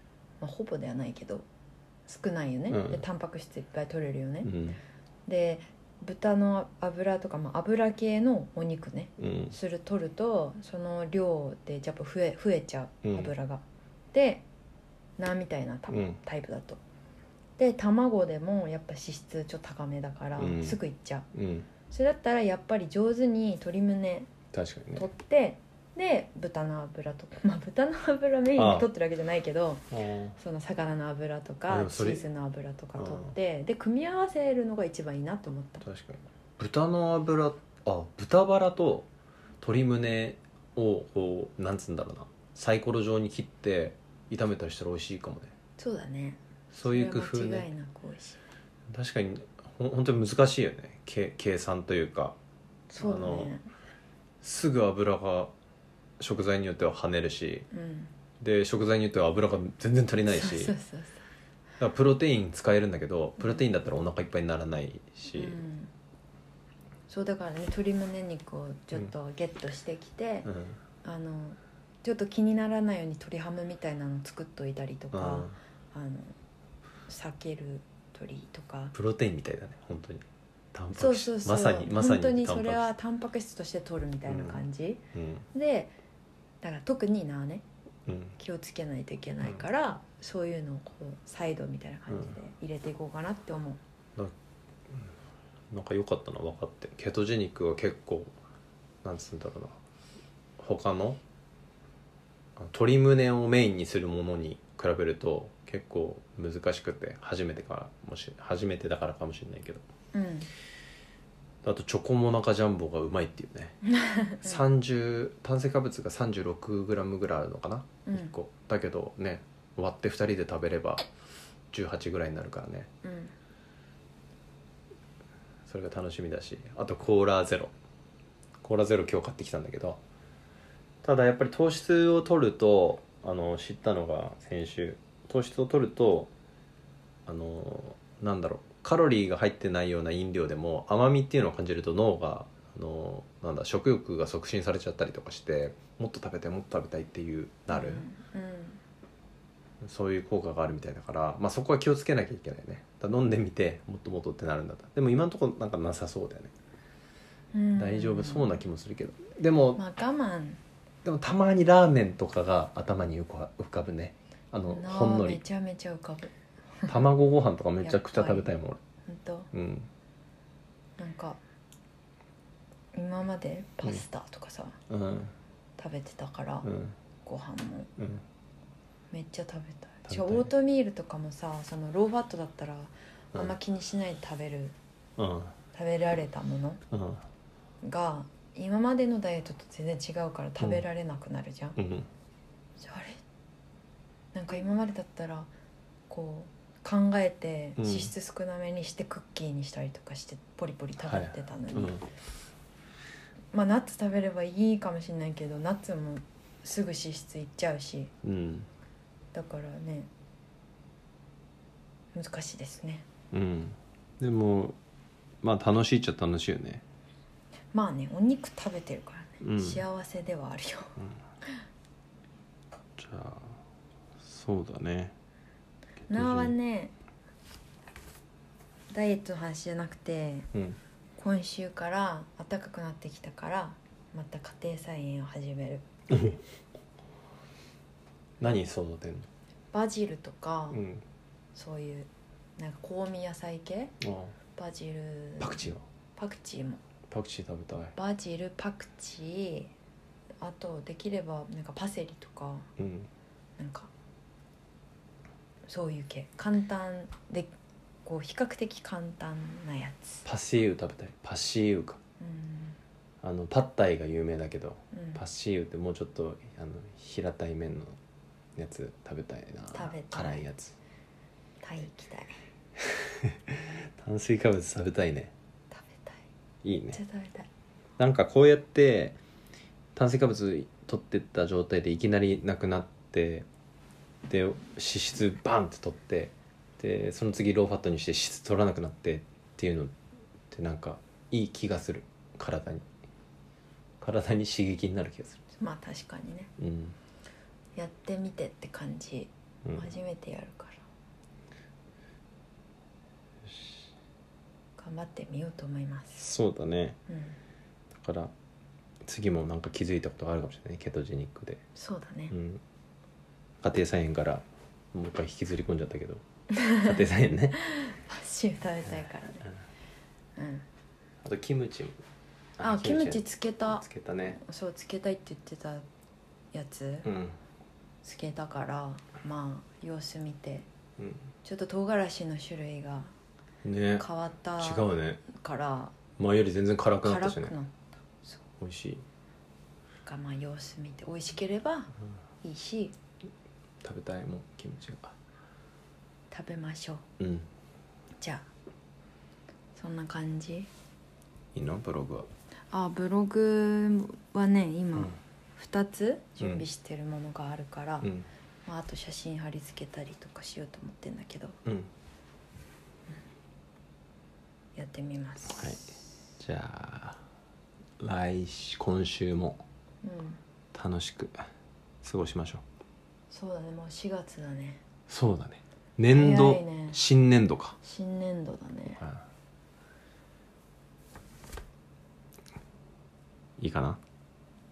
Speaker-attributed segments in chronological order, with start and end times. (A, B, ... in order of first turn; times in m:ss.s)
0:00.4-0:01.5 A
0:02.1-0:04.5 A
0:02.7-0:03.0 B
0:04.4-0:04.8 B
0:05.3-0:14.4 A
0:09.2-0:09.6 B
0:13.0-0:13.3 B
0:15.2-0:16.8 A
0:15.9-0:16.2 B
0:17.6-0:21.3 A
0:20.4-0:20.8 B
0:21.3-0:21.7 B
0:21.9-0:24.3 A
0:24.5-0:25.1 B
0:25.0-0:29.8 A
0:28.6-0:28.9 B
0:29.9-0:30.4 B
0:30.4-0:35.8 A
0:31.7-0:32.2 B
0:33.0-0:33.3 B
0:35.8-0:39.1 B
0:39.6-0:45.5 B
0:45.8-0:48.4 A
0:46.7-0:47.7 B
0:48.9-0:52.4 B
0:52.9-0:53.7 A
0:53.0-0:53.5 B
0:54.4-0:55.5 B
0:56.2-0:57.7 B
0:57.7-0:58.1 A
0:58.4-1:00.7 B
1:00.3-1:01.2 A
1:01.8-1:05.6 B
1:05.3-1:05.9 A
1:07.1-1:10.5 A
1:10.5-1:10.8 B
1:11.0-1:16.4 A
1:15.1-1:15.6 B
1:17.1-1:19.0 A
1:18.9-1:20.2 B
1:20.7-1:22.9 B
1:21.0-1:25.0 A
1:24.3-1:25.5 B
1:25.5-1:25.9 A
1:26.6-1:27.6 A
1:28.1-1:28.4 B
1:28.4-1:33.8 A
1:35.7-1:38.4 B
1:39.0-1:39.8 B
1:40.6-1:41.2 B
1:42.6-1:49.8 B
1:50.1-1:50.5 A
1:51.6-1:53.8 B
1:53.8-1:54.6 A
1:54.4-2:01.1 B
1:58.1-1:58.3 A
2:01.7-2:02.9 B
2:03.0-2:03.3 A
2:05.7-2:07.7 B
2:08.6-2:10.0 B
2:11.0-2:16.3 B
2:17.3-2:28.1 B
2:27.7-2:28.8 A
2:29.8-2:36.5 B
2:37.5-2:38.6 A
2:37.8-2:39.8 B
2:39.8-2:40.6 A
2:41.0-2:45.4 B
2:44.7-2:47.0 A
2:46.9-2:48.8 B
2:47.8-2:48.5 A
2:49.1-2:49.5 A
2:49.5-2:49.9 B
2:51.0-2:51.4 A
2:52.9-2:54.8 A
2:54.9-2:55.3 B
2:55.8-2:56.7 A
2:56.6-2:57.0 B
2:57.2-2:57.9 A
2:59.1-3:04.8 A
3:00.1-3:00.5 B
3:05.2-3:05.6 B
3:05.7-3:06.8 A
3:06.9-3:07.2 B
3:07.8-3:11.8 A
3:11.8-3:12.1 B
3:12.8-3:13.2 A
3:14.3-3:15.5 A
3:16.1-3:22.0 A
3:17.8-3:18.1 B
3:21.0-3:22.1 B
3:23.5-3:28.1 A
3:28.2-3:28.7 B
3:29.3-3:30.1 A
3:32.1-3:33.1 A
3:33.3-3:34.8 B
3:35.4-3:36.8 B
3:37.7-3:41.6 A
3:39.4-3:39.8 B
3:43.0-3:43.6 B
3:44.2-3:45.2 B
3:46.0-3:46.5 B
3:46.1-3:46.9 A
3:48.9-3:50.5 A
3:50.5-3:50.8 B
3:51.2-3:55.8 A
3:56.1-3:56.4 B
3:58.4-3:59.3 B
3:59.7-4:00.8 A
4:00.7-4:01.0 B
4:01.6-4:03.9 A
4:04.0-4:04.4 B
4:04.6-4:06.8 A
4:05.4-4:05.8 B
4:07.1-4:08.0 B
4:08.0-4:09.7 A
4:10.4-4:12.7 A
4:12.8-4:13.1 B
4:13.6-4:13.9 A
4:15.7-4:17.5 A
4:18.0-4:20.2 A
4:20.2-4:22.0 B
4:22.2-4:22.8 A
4:23.2-4:28.0 B
4:24.9-4:25.2 A
4:28.6-4:30.8 B
4:29.7-4:30.4 A
4:31.6-4:32.3 A
4:32.8-4:35.3 B
4:35.7-4:36.2 A
4:36.6-4:37.0 B
4:36.9-4:37.5 A
4:38.0-4:39.2 B
4:40.0-4:43.5 B
4:44.3-4:49.9 B
4:50.5-4:52.9 B
4:54.0-4:55.4 B
4:55.6-4:56.5 A
4:56.6-4:57.0 B
4:57.8-5:00.8 A
4:59.6-4:59.9 B
5:04.8-5:06.2 A
5:06.2-5:07.0 B
5:07.1-5:07.4 A
5:07.9-5:08.3 B
5:09.0-5:11.6 B
5:11.8-5:12.3 A
5:12.3-5:12.6 B
5:13.6-5:16.2 B
5:16.5-5:17.0 A
5:16.8-5:17.6 B
5:17.6-5:19.5 A
5:20.4-5:20.7 A
5:21.2-5:22.0 B
5:22.6-5:24.4 B
5:22.6-5:25.9 A
5:26.5-5:27.1 A
5:27.0-5:27.4 B
5:28.0-5:30.7 A
5:31.4-5:33.1 A
5:33.6-5:34.1 B
5:34.0-5:36.0 A
5:34.6-5:35.2 B
5:36.2-5:37.5 B
5:37.0-5:38.4 A
5:38.6-5:39.0 B
5:40.0-5:41.9 A
5:42.4-5:43.0 A
5:43.8-5:45.1 B
5:46.3-5:47.0 A
5:47.2-5:47.5 B
5:48.2-5:48.5 A
5:49.8-5:50.7 A
5:51.5-5:52.3 B
5:52.7-5:58.1 A
5:56.4-5:56.6 B
5:58.0-5:58.3 B
5:58.7-6:01.6 A
6:04.8-6:05.7 A
6:05.5-6:07.2 B
6:08.0-6:09.7 B
6:10.0-6:10.4 A
6:10.7-6:11.5 B
6:12.0-6:12.6 B
6:13.3-6:14.8 A
6:15.1-6:17.8 B
6:16.1-6:17.0 A
6:17.8-6:19.0 A
6:19.0-6:19.2 B
6:23.6-6:24.0 B